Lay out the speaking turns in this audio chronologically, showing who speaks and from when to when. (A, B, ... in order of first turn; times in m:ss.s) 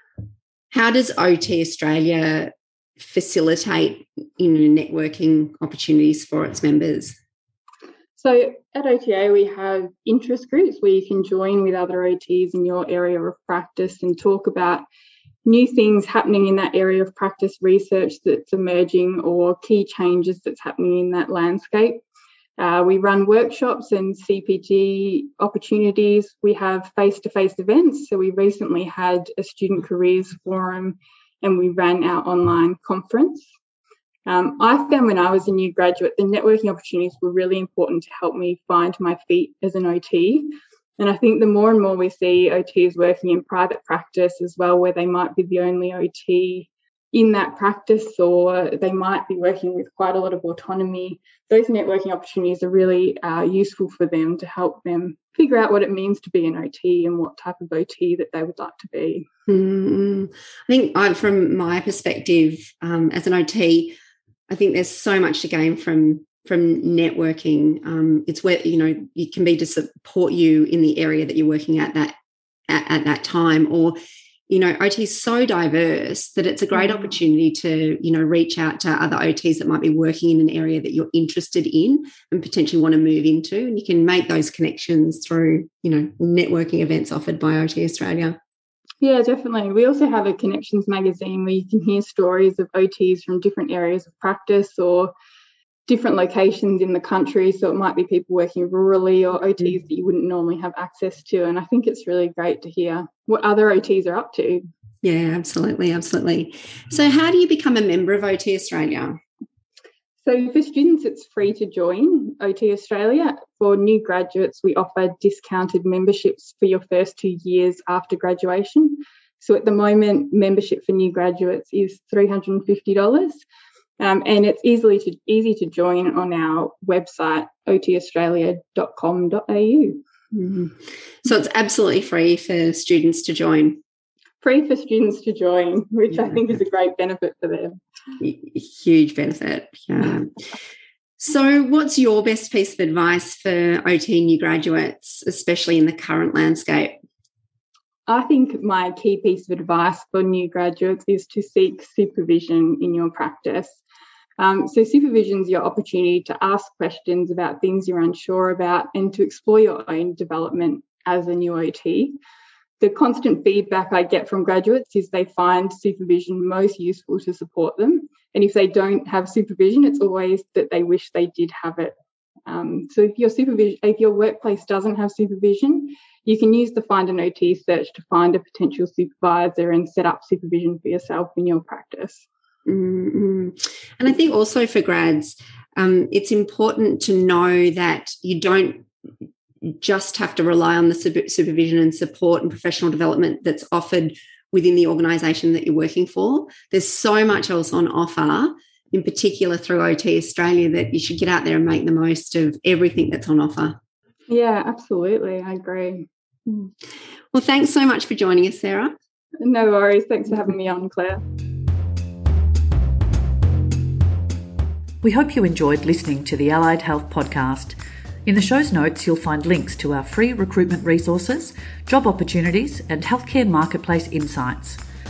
0:00.7-0:07.2 A
0:08.2-0:14.8 B
0:15.4-0:22.0 B
0:22.6-0:33.5 B
0:34.3-0:40.5 B
0:41.0-0:59.3 B
0:59.5-1:04.0 A
1:04.5-1:12.2 A
1:12.7-1:14.0 A
1:14.5-1:28.4 A
1:29.0-1:35.1 B
1:35.9-1:44.6 B
1:45.0-1:49.2 A
1:50.2-2:03.4 B
2:04.0-2:10.0 B
2:10.3-2:13.8 A
2:14.4-2:17.7 B
2:18.2-2:20.4 A
2:21.2-2:27.0 A
2:28.1-2:33.8 B
2:34.4-2:42.2 B
2:42.8-2:51.9 B
2:52.5-3:02.3 B
3:02.7-3:08.9 A
3:09.6-3:23.8 A
3:24.3-3:26.1 B
3:26.5-3:26.7 A
3:27.3-3:28.9 A
3:29.4-3:31.2 B
3:35.0-3:44.8 C